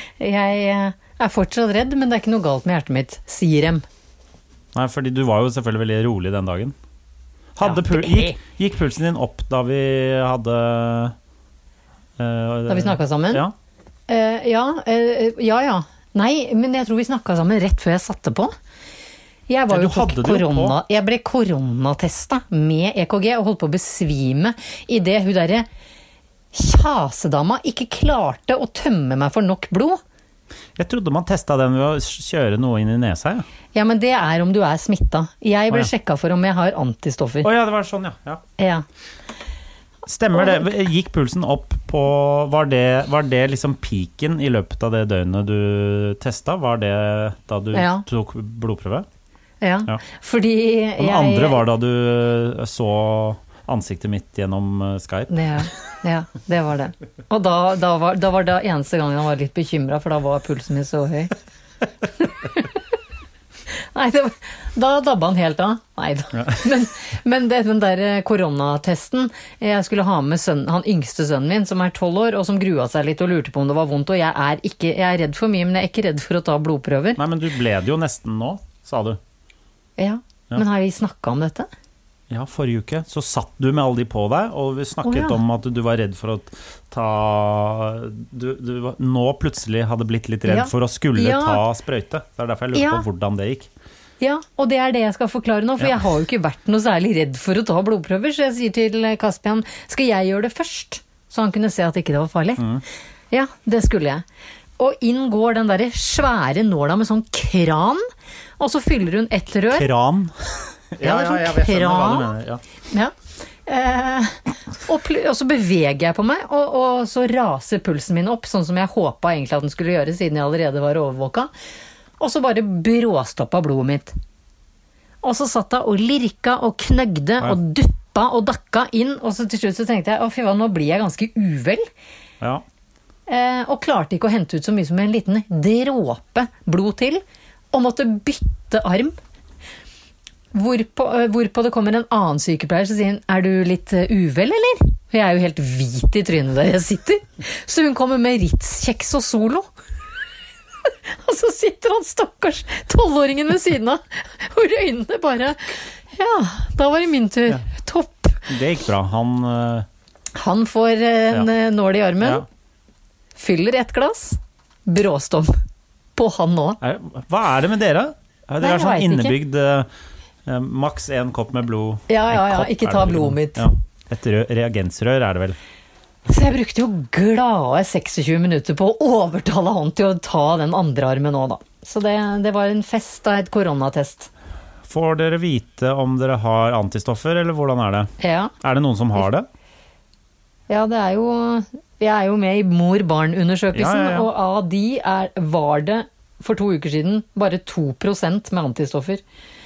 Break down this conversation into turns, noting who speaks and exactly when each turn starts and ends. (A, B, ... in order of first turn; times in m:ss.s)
0:00.2-0:03.8 A
0:04.7-0:06.7 B
0:07.6-0:11.1 B
0:07.6-0:08.4 A
0:12.2-0:13.5 B
0:12.7-0:13.4 A
0:14.1-0:18.5 A
0:19.5-0:25.7 A
0:19.7-0:20.8 B
0:26.5-0:30.0 A
0:30.8-0:33.4 B
0:33.7-0:37.5 A
0:37.4-0:38.4 B
0:38.6-0:38.8 A
0:40.0-0:49.0 B
0:40.4-0:40.7 A
0:47.7-0:48.0 A
0:49.6-0:51.6 A
0:51.0-0:55.3 B
0:55.3-1:01.3 A
1:02.3-1:02.7 A
1:03.9-1:17.2 A
1:17.2-1:19.2 B
1:20.0-1:21.7 A
1:22.3-1:33.7 B
1:25.0-1:25.4 A
1:30.4-1:31.6 A
1:32.7-1:33.0 A
1:34.2-1:42.6 A
1:42.6-1:42.8 B
1:43.3-1:44.2 A
1:44.8-1:48.0 A
1:48.6-1:49.9 A
1:49.7-1:52.6 B
1:51.0-1:52.3 A
1:53.6-2:01.5 A
2:02.2-2:04.1 A
2:05.2-2:11.8 A
2:13.3-2:17.2 A
2:17.7-2:19.2 A
2:20.5-2:29.7 A
2:31.1-2:38.4 A
2:38.5-2:39.9 B
2:40.3-2:42.4 A
2:42.2-2:42.4 B
2:43.4-2:45.5 A
2:46.2-2:46.8 A
2:46.8-2:49.9 B
2:48.6-2:49.4 A
2:50.4-2:55.6 B
2:52.1-2:53.7 A
2:56.3-3:04.3 A
3:04.8-3:09.5 B
3:08.2-3:08.5 A
3:10.7-3:19.2 A
3:13.7-3:14.3 B